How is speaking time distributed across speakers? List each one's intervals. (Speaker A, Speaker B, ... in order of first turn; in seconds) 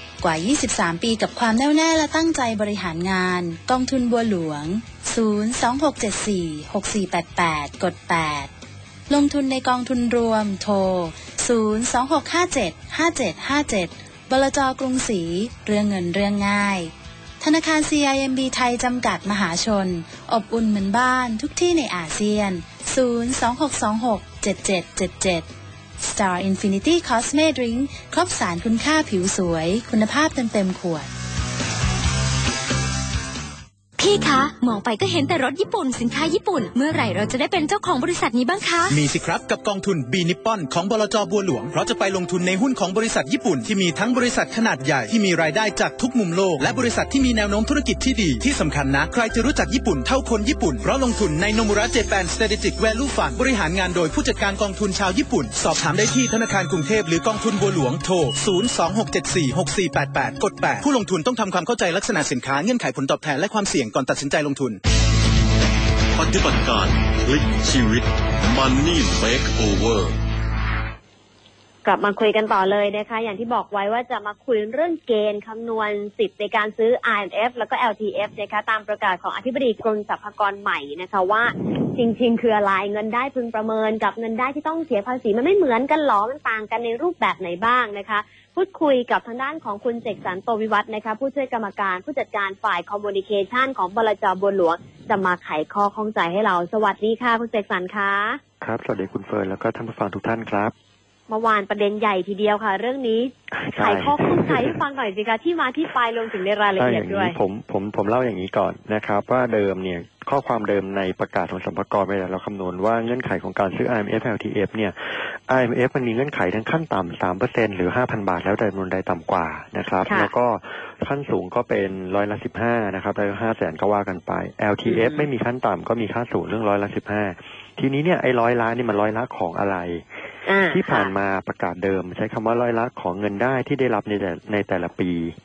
Speaker A: 0.2-8.5, 9.1-25.5, 26.0-31.1
Speaker B: 34.0-39.0
Speaker C: 38.9-64.8
Speaker D: 66.2-70.2
Speaker E: 71.8-98.4, 101.3-107.4, 120.0-120.3, 124.9-125.3, 130.5-131.1
Speaker F: 98.6-100.7, 103.5-104.8, 106.8-130.1, 130.7-135.4